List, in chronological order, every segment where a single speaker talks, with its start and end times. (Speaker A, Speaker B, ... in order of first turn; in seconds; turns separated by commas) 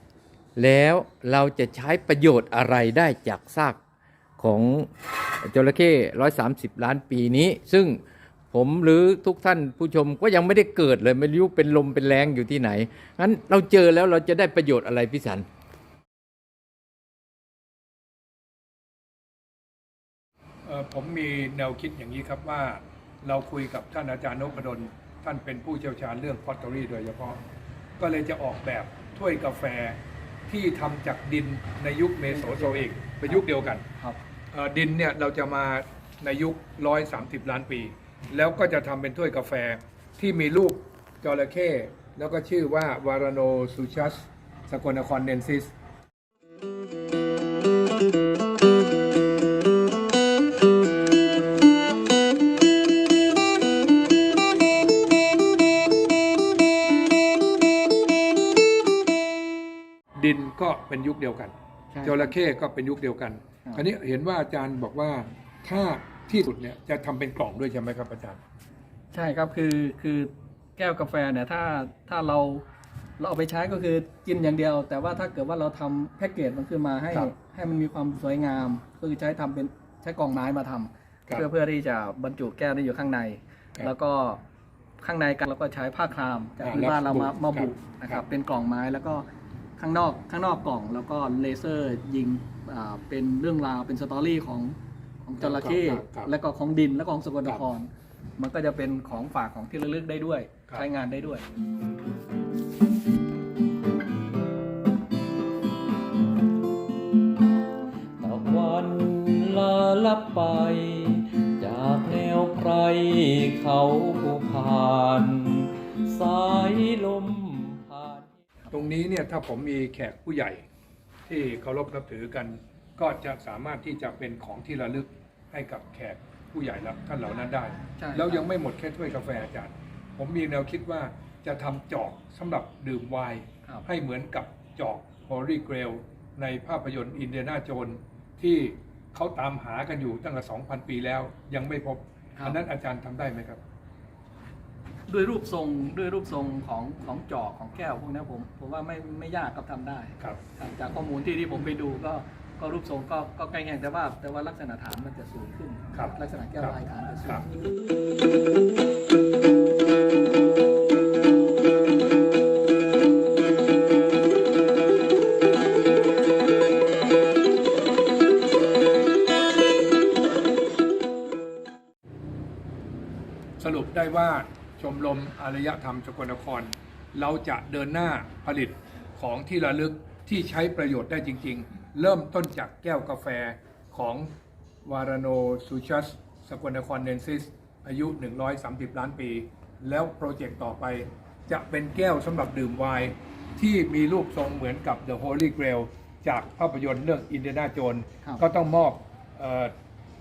Speaker A: 0.6-3.8, Speaker A: 4.4-8.0, Speaker A: 8.5-15.4, Speaker B: 20.6-27.4, Speaker B: 28.0-30.0, Speaker B: 30.5-33.8, Speaker C: 32.3-33.4, Speaker B: 34.5-45.7, Speaker B: 60.2-68.4, Speaker C: 61.9-62.3, Speaker C: 69.1-72.6, Speaker C: 73.2-84.4, Speaker C: 85.0-89.2, Speaker B: 86.6-88.2, Speaker C: 89.8-101.4, Speaker B: 95.4-96.3, Speaker A: 108.2-118.3, Speaker B: 118.7-120.6, Speaker B: 121.3-143.6, Speaker C: 128.0-128.5, Speaker C: 145.1-157.4, Speaker B: 155.9-156.7, Speaker B: 173.6-184.3, Speaker B: 184.8-199.7